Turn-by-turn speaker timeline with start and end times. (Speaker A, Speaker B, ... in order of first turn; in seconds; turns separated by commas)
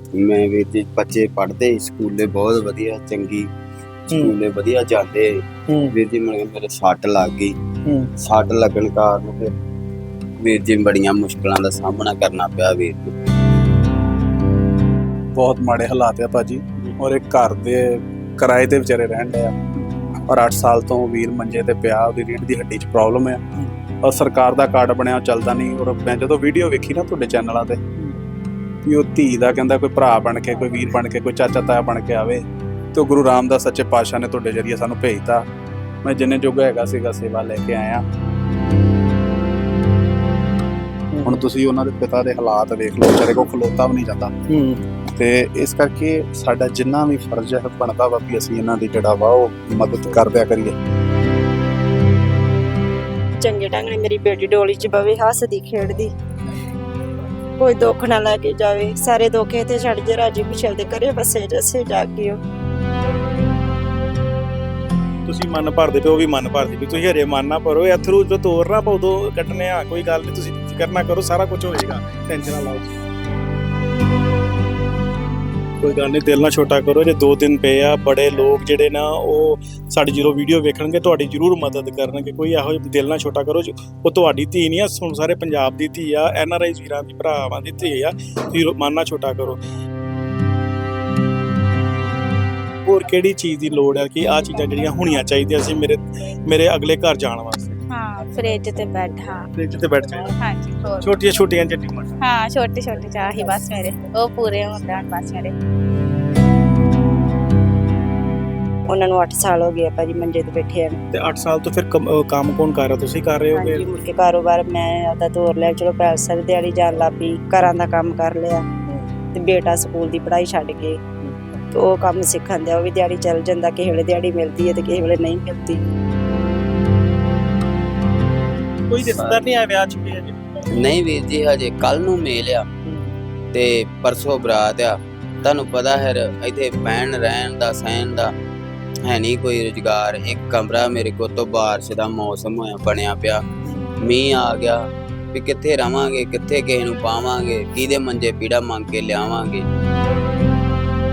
Speaker A: 0.1-3.5, Speaker A: 4.1-7.6, Speaker B: 5.7-6.0, Speaker B: 7.9-8.1, Speaker A: 8.2-9.5, Speaker A: 10.4-13.2, Speaker C: 15.4-19.6, Speaker C: 20.3-23.4, Speaker C: 24.0-27.8, Speaker C: 28.9-35.5, Speaker C: 36.0-38.0, Speaker B: 41.1-41.4, Speaker C: 41.2-44.3, Speaker B: 44.5-44.8, Speaker C: 45.2-50.8, Speaker D: 53.4-56.1, Speaker D: 57.6-62.4, Speaker B: 65.3-73.0, Speaker B: 75.8-89.6, Speaker B: 92.8-97.8, Speaker E: 97.9-99.5, Speaker B: 99.5-100.3, Speaker E: 100.3-101.1, Speaker B: 101.0-102.2, Speaker E: 102.2-105.5, Speaker D: 108.9-111.0, Speaker B: 111.1-113.8, Speaker D: 113.5-118.7, Speaker D: 119.3-121.0, Speaker D: 121.7-125.8, Speaker B: 128.9-130.4, Speaker A: 129.0-129.5, Speaker A: 130.7-132.7, Speaker B: 132.9-133.1, Speaker A: 133.5-138.3, Speaker A: 139.1-143.4, Speaker B: 143.7-143.9, Speaker A: 144.0-149.7